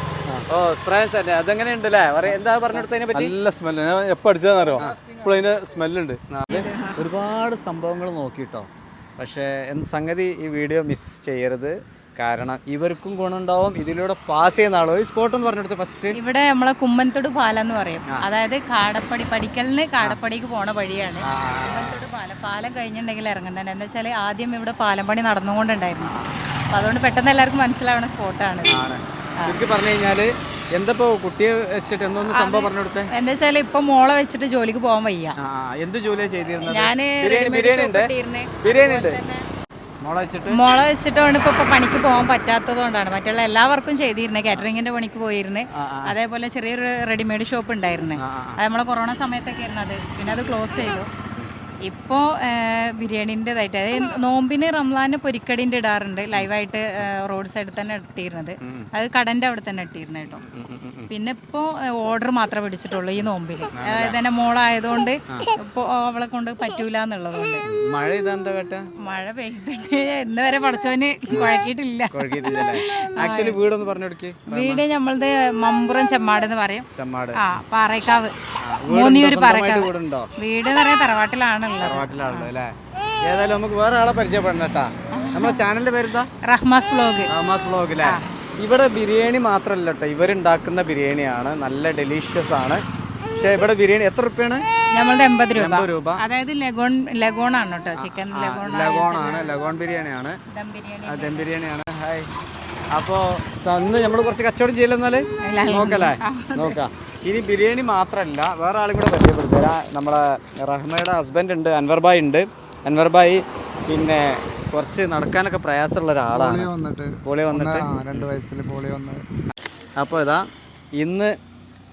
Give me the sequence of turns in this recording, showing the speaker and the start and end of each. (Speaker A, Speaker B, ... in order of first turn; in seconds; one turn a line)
Speaker A: 0.5-3.3
Speaker B: 3.1-6.2
Speaker A: 6.3-16.2
Speaker C: 6.5-7.0
Speaker C: 16.1-26.1
Speaker A: 21.2-22.1
Speaker A: 26.0-26.4
Speaker C: 26.7-28.8
Speaker A: 28.7-33.1
Speaker C: 32.3-35.4
Speaker A: 35.4-38.1
Speaker C: 36.6-39.4
Speaker A: 38.6-39.2
Speaker A: 40.0-40.6
Speaker C: 40.5-51.1
Speaker A: 45.7-46.1
Speaker A: 48.2-48.6
Speaker C: 51.8-60.4
Speaker A: 58.6-58.9
Speaker A: 60.5-61.1
Speaker C: 61.1-67.6
Speaker A: 63.1-64.2
Speaker A: 67.7-68.8
Speaker C: 69.0-73.6
Speaker A: 72.1-74.8
Speaker C: 74.5-78.3
Speaker A: 76.9-77.4
Speaker A: 78.6-80.3
Speaker C: 78.9-82.5
Speaker A: 81.8-86.3
Speaker C: 85.1-85.7
Speaker C: 86.4-87.3
Speaker A: 87.3-94.6
Speaker C: 88.0-88.4
Speaker C: 94.9-99.8
Speaker A: 95.5-96.2
Speaker A: 98.0-100.4
Speaker C: 100.5-101.5
Speaker A: 101.0-102.3
Speaker A: 102.9-116.7
Speaker C: 105.4-106.8
Speaker D: 116.3-119.2
Speaker A: 117.2-118.3
Speaker A: 120.0-120.5
Speaker A: 121.0-121.3